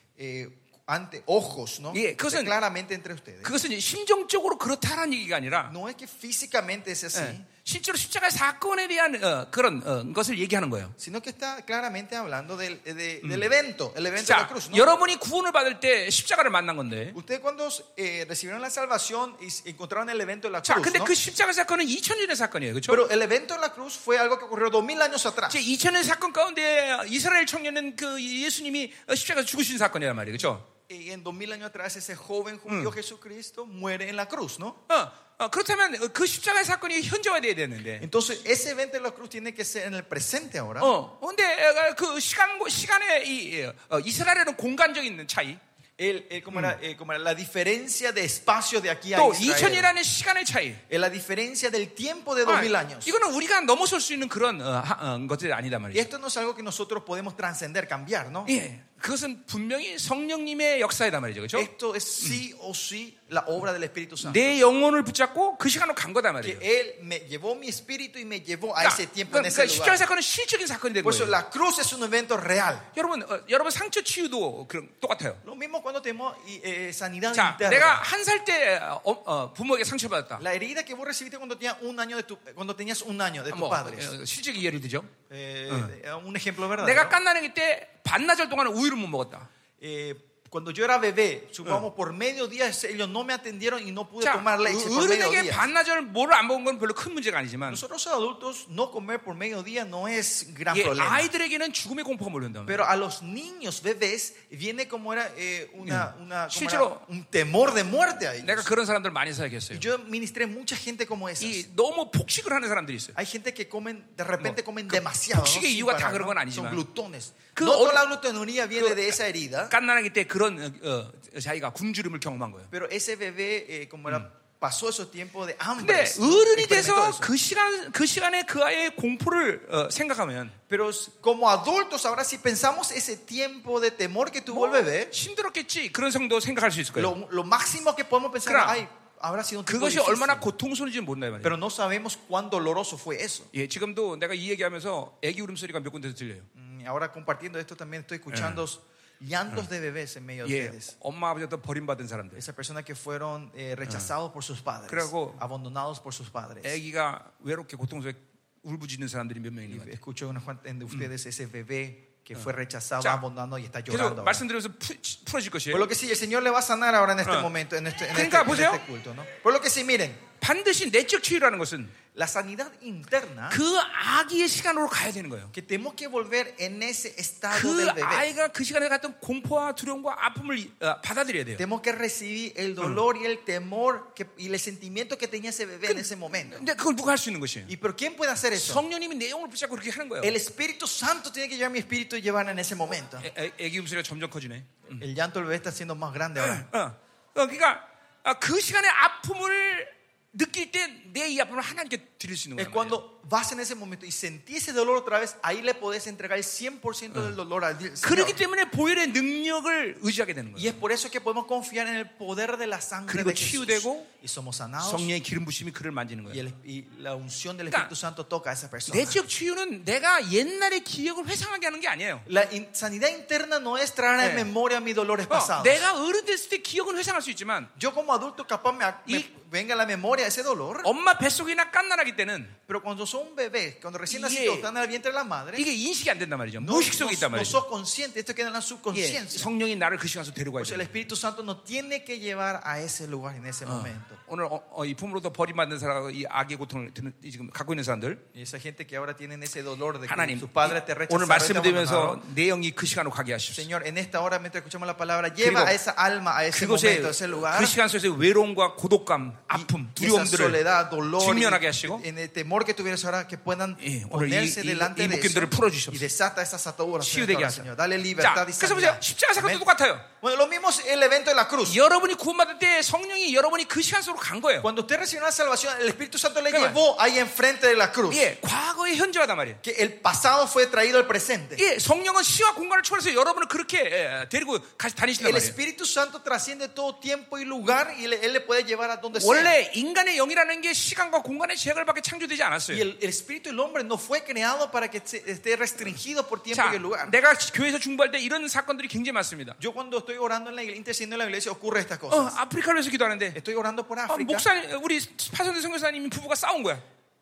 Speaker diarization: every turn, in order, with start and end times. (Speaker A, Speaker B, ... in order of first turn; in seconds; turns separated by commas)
Speaker A: 0.2-3.5, Speaker B: 1.9-2.5, Speaker B: 3.4-5.7, Speaker A: 5.7-7.5, Speaker B: 7.1-10.9, Speaker A: 11.0-14.9, Speaker B: 13.2-13.5, Speaker B: 14.2-17.2, Speaker A: 17.1-21.1, Speaker B: 20.6-23.0, Speaker A: 22.9-25.6, Speaker B: 25.5-30.7, Speaker A: 30.9-34.8, Speaker B: 32.7-32.9, Speaker B: 34.9-38.1, Speaker A: 38.0-40.9, Speaker B: 40.8-45.6, Speaker A: 46.0-49.9, Speaker B: 49.1-50.8, Speaker A: 50.9-53.1, Speaker B: 52.5-56.1, Speaker A: 55.9-58.5, Speaker B: 58.5-61.7, Speaker A: 61.5-64.5, Speaker B: 64.2-66.6, Speaker A: 66.4-70.0, Speaker B: 68.8-71.4, Speaker A: 71.0-72.9, Speaker B: 72.9-75.4, Speaker A: 75.4-78.0, Speaker B: 77.3-80.4, Speaker A: 80.4-84.1, Speaker B: 83.5-85.1, Speaker A: 85.3-87.2, Speaker B: 85.7-85.9, Speaker B: 86.8-89.5, Speaker A: 89.8-95.7, Speaker B: 94.2-97.8, Speaker A: 97.7-101.3, Speaker B: 100.7-102.9, Speaker A: 102.7-108.7, Speaker B: 105.8-107.0, Speaker B: 108.4-109.9, Speaker A: 109.7-111.7, Speaker B: 111.4-113.2, Speaker A: 113.2-119.7, Speaker B: 114.4-116.8, Speaker B: 117.5-118.1, Speaker B: 118.8-119.2, Speaker B: 119.7-122.7, Speaker A: 122.7-127.3, Speaker B: 125.8-130.6, Speaker A: 130.7-135.1, Speaker B: 134.5-137.1, Speaker A: 136.9-140.5, Speaker B: 138.4-138.8, Speaker B: 139.7-141.6, Speaker A: 141.4-143.5, Speaker B: 143.5-146.5, Speaker A: 146.6-150.9, Speaker B: 148.3-148.6, Speaker B: 150.4-152.4, Speaker A: 152.4-156.8, Speaker B: 154.9-155.4, Speaker B: 156.6-160.0, Speaker A: 159.7-164.4, Speaker B: 163.9-165.9, Speaker A: 165.7-170.2, Speaker B: 167.2-167.5, Speaker B: 168.1-168.8, Speaker B: 170.4-171.9, Speaker A: 172.1-173.6, Speaker B: 173.5-175.5, Speaker A: 175.5-178.3, Speaker B: 177.5-181.7, Speaker A: 181.6-186.7, Speaker B: 185.9-187.7, Speaker A: 187.7-188.8, Speaker B: 188.6-190.4, Speaker A: 190.2-193.2, Speaker B: 193.2-195.0, Speaker A: 195.0-196.7, Speaker B: 196.4-203.0, Speaker A: 202.6-208.4, Speaker B: 208.0-210.8, Speaker A: 210.6-215.1, Speaker B: 213.1-214.1, Speaker B: 214.8-216.4, Speaker A: 216.3-219.2, Speaker B: 218.9-222.3, Speaker A: 222.3-225.9, Speaker B: 224.2-224.5, Speaker B: 225.3-227.7, Speaker A: 227.8-230.9, Speaker B: 230.8-232.6, Speaker A: 232.7-235.7, Speaker B: 234.1-234.7, Speaker B: 235.6-237.6, Speaker A: 236.6-239.5, Speaker B: 238.9-240.9, Speaker A: 240.6-244.2, Speaker B: 243.7-248.2, Speaker A: 248.3-252.2, Speaker B: 250.1-253.7, Speaker A: 253.5-257.8, Speaker B: 255.4-255.8, Speaker B: 256.5-260.6, Speaker A: 259.5-269.7, Speaker B: 261.2-262.0, Speaker B: 263.8-266.0, Speaker B: 267.0-270.1, Speaker A: 270.2-271.8, Speaker B: 271.6-274.7, Speaker A: 274.6-278.3, Speaker B: 276.5-276.8, Speaker B: 278.1-279.6, Speaker A: 279.6-281.6, Speaker B: 281.6-285.6, Speaker A: 285.2-289.6, Speaker B: 289.1-292.9, Speaker A: 292.7-297.1, Speaker B: 296.5-299.6, Speaker A: 299.6-302.4, Speaker B: 302.1-303.4, Speaker A: 303.4-304.5, Speaker B: 304.1-306.8